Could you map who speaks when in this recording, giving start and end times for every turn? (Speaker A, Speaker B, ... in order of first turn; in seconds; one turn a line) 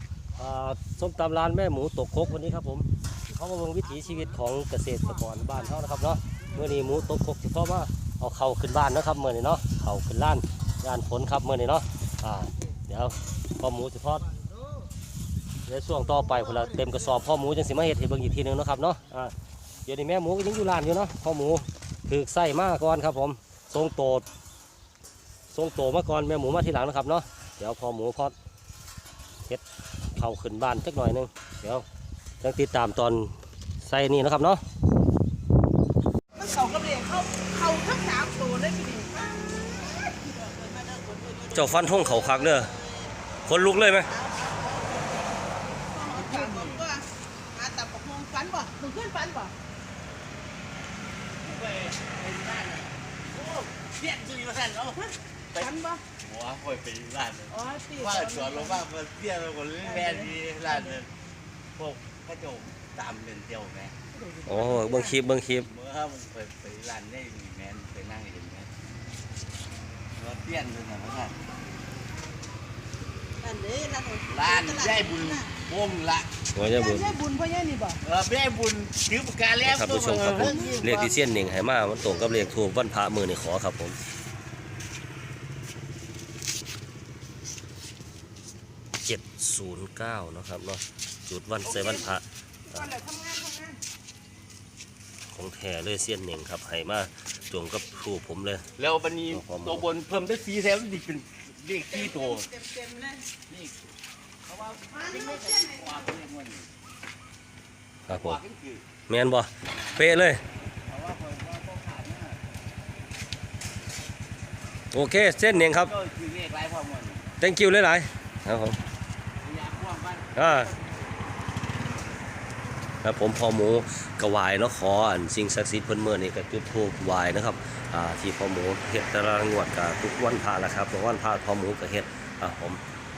Speaker A: 0.4-14.3
Speaker A: 15.7-19.3
Speaker A: 19.9-24.2
Speaker A: 25.5-28.3
Speaker A: 30.2-31.9
Speaker A: 32.4-34.6
Speaker B: 36.4-43.1
Speaker A: 41.5-42.7
Speaker A: 43.5-44.1
Speaker B: 44.1-45.2
Speaker B: 45.9-49.5
Speaker C: 46.1-46.9
Speaker C: 51.4-55.0
Speaker B: 55.0-56.0
Speaker C: 55.5-61.1
Speaker B: 57.5-58.9
Speaker B: 59.8-61.0
Speaker C: 61.8-64.0
Speaker B: 64.2-65.1
Speaker A: 64.5-65.7
Speaker C: 65.7-68.7
Speaker C: 70.2-71.4
Speaker B: 73.4-75.5
Speaker C: 74.3-76.3
Speaker A: 76.5-77.2
Speaker B: 76.6-78.0
Speaker C: 78.0-81.2
Speaker A: 79.6-84.0
Speaker B: 80.2-80.9
Speaker A: 89.0-92.9
Speaker B: 91.7-92.0
Speaker B: 92.7-93.8
Speaker A: 95.3-98.7
Speaker C: 98.8-102.5
Speaker A: 99.3-99.9
Speaker B: 101.9-103.3
Speaker C: 103.5-103.8
Speaker C: 104.5-106.7
Speaker B: 104.9-106.0
Speaker A: 108.1-108.4
Speaker C: 108.2-108.8
Speaker A: 109.1-110.4
Speaker C: 110.9-112.4
Speaker A: 114.9-115.9
Speaker C: 115.5-117.3
Speaker A: 117.4-118.8
Speaker C: 119.4-120.9
Speaker A: 120.3-120.7
Speaker A: 123.0-132.8